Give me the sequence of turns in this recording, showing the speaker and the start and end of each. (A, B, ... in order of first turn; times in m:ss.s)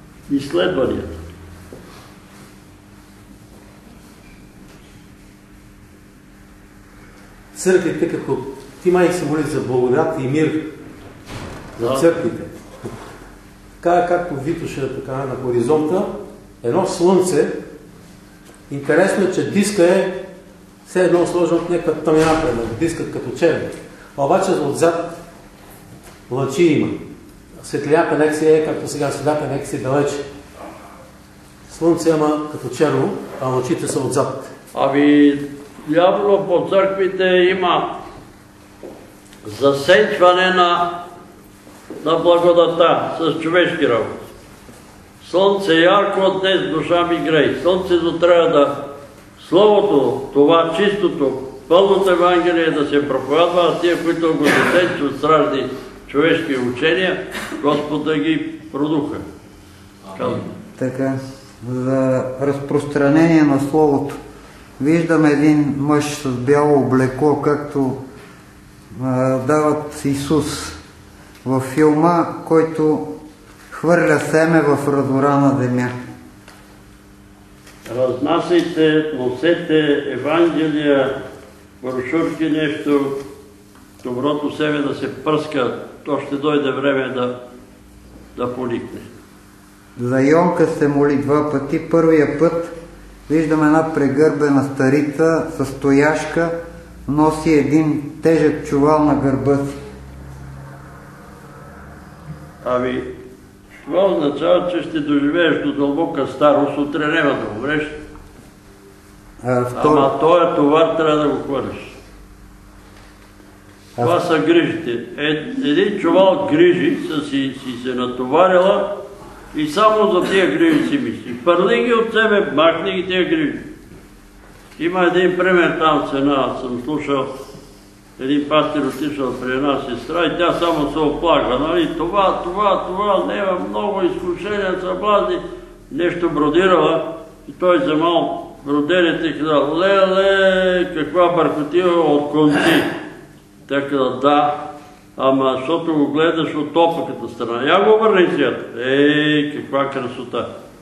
0:00.3-0:01.2 A
0:07.5-0:10.7 B
0:11.8-0:12.2 A
0:11.8-0:12.5 B
0:13.8-0:17.6 B
0:18.7-0:20.3 B
0:20.8-0:25.1 B
0:26.3-0:27.0 B
0:27.6-0:30.2 B
0:31.7-0:34.5 B
0:34.7-0:38.0 A
0:39.4-0:41.0 A
0:42.0-0:44.2 A
0:45.2-0:59.2 A
1:00.1-1:00.5 A
1:00.8-1:04.2 C
1:04.8-1:08.0 C
1:08.9-1:10.8 C
1:11.4-1:13.1 C
1:13.7-1:15.9 C
1:17.9-1:21.1 A
1:21.8-1:23.2 A
1:24.0-1:27.4 A
1:28.4-1:29.1 A
1:30.0-1:32.8 C
1:33.3-1:36.6 C
1:37.1-1:39.8 C
1:42.6-1:43.1 A
1:43.8-1:48.0 A
1:49.4-1:50.1 C
1:49.8-1:52.0 A
1:54.0-1:59.0 A
1:59.5-2:03.7 A
2:04.8-2:07.3 A
2:08.2-2:22.9 A
2:23.7-2:30.5 A